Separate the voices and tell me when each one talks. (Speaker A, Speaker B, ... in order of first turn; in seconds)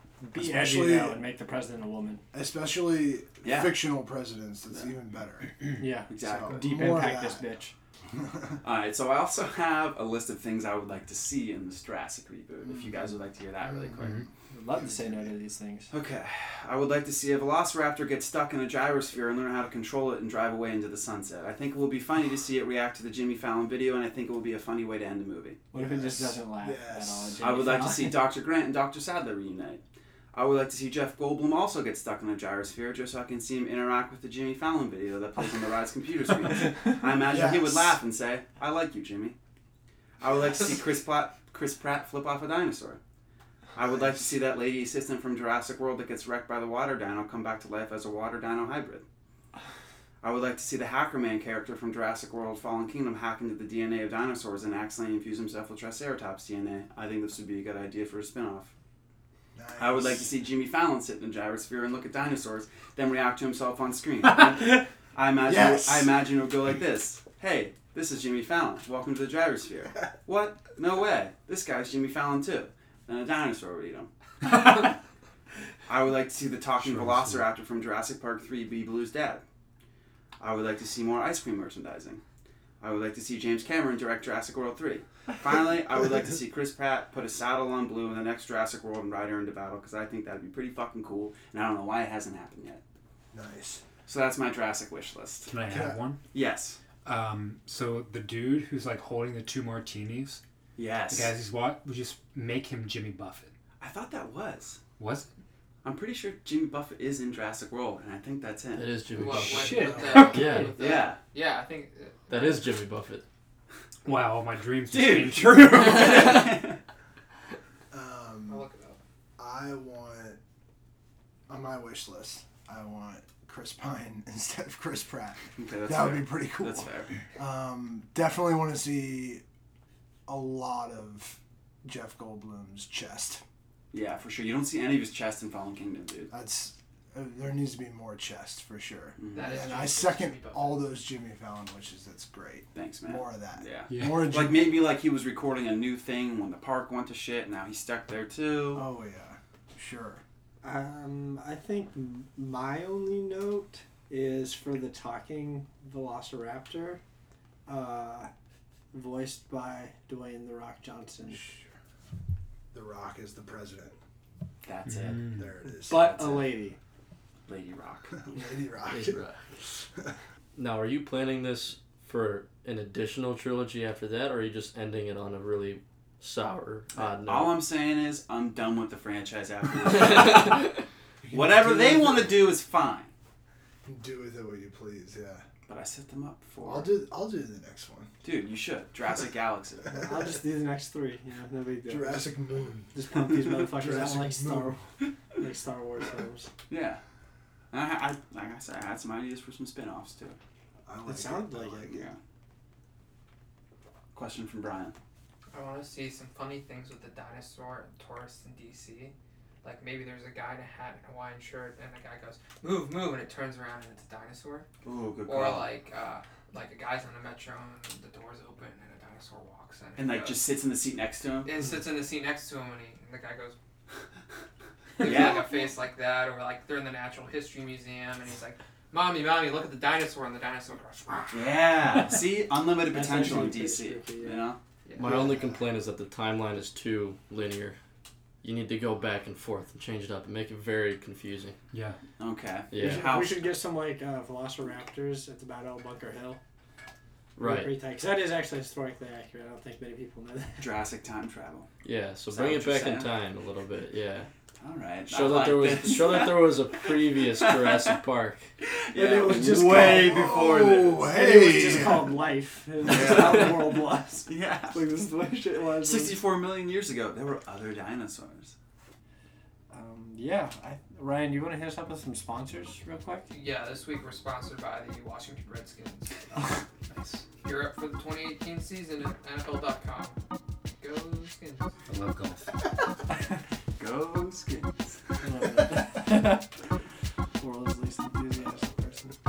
Speaker A: 0.2-2.2, 5.8-7.7, 14.5-15.9, 25.7-28.2, 150.6-157.0, 157.7-158.3, 158.9-161.6, 165.8-166.8, 190.0-192.3, 192.9-194.8, 195.3-196.5, 201.1-201.9, 232.9-234.5, 235.1-235.6, 242.8-246.4, 247.4-250.7, 258.9-266.2, 269.7-273.3, 285.2-286.5, 287.4-289.1
Speaker B: 0.3-1.2, 2.3-5.7, 6.2-7.4, 8.1-8.6, 12.6-13.0, 13.6-15.3, 25.7-27.4, 37.3-38.0, 59.5-60.3, 65.5-66.1, 93.3-93.8, 95.7-96.0, 109.8-110.4, 117.9-118.7, 119.4-120.4, 121.5-129.4, 130.3-133.4, 136.3-144.7, 148.7-150.2, 161.2-161.7, 162.7-163.9, 165.3-166.1, 168.3-169.2, 181.2-182.4, 183.8-185.4, 186.6-188.1, 191.9-192.9, 193.6-194.7, 200.8-202.1, 235.1-235.4, 259.7-262.1, 288.4-289.1
Speaker C: 3.4-3.8, 6.1-6.7, 8.6-14.2, 15.9-25.6, 27.4-29.8, 30.3-39.4, 40.2-43.0, 43.7-49.0, 50.2-58.7, 59.8-74.9, 75.9-79.4, 80.4-82.2, 82.8-92.8, 94.0-95.5, 96.3-96.8, 100.8-101.3, 103.8-104.8, 105.8-108.9, 110.8-111.2, 114.9-116.8, 125.5-127.2, 133.9-136.3, 139.2-139.5, 142.7-148.8, 164.6-166.6, 167.5-168.4, 176.9-180.8, 181.3-183.1, 185.7-186.9, 188.2-190.0, 196.7-197.0, 197.7-200.4, 201.8-202.2, 204.1-204.9, 214.8-215.7, 220.0-221.5, 225.0-225.4, 231.3-234.6, 242.2-243.6, 250.6-251.7, 252.3-253.2, 254.6-257.9, 258.6-261.1, 262.8-264.8, 265.8-268.5, 283.8-285.0
Speaker D: 14.0-14.3, 76.8-77.4, 95.5-96.2, 97.0-100.4, 101.1-103.5, 105.0-105.3, 109.5-110.8, 114.0-116.6, 143.9-144.3, 164.9-165.4, 281.9-282.4
Speaker E: 108.7-110.8, 112.3-113.2, 168.9-169.6, 170.5-177.6, 180.0-180.6, 234.9-237.8, 238.4-241.6, 242.7-243.1, 247.4-247.7, 251.8-254.3, 255.1-258.4
Speaker F: 109.1-112.7, 115.5-116.4, 118.5-119.0, 139.3-140.8, 205.5-214.7, 215.2-220.5, 221.4-223.6, 225.0-231.6, 234.8-235.2, 273.3-276.2, 277.4-280.2, 280.8-281.7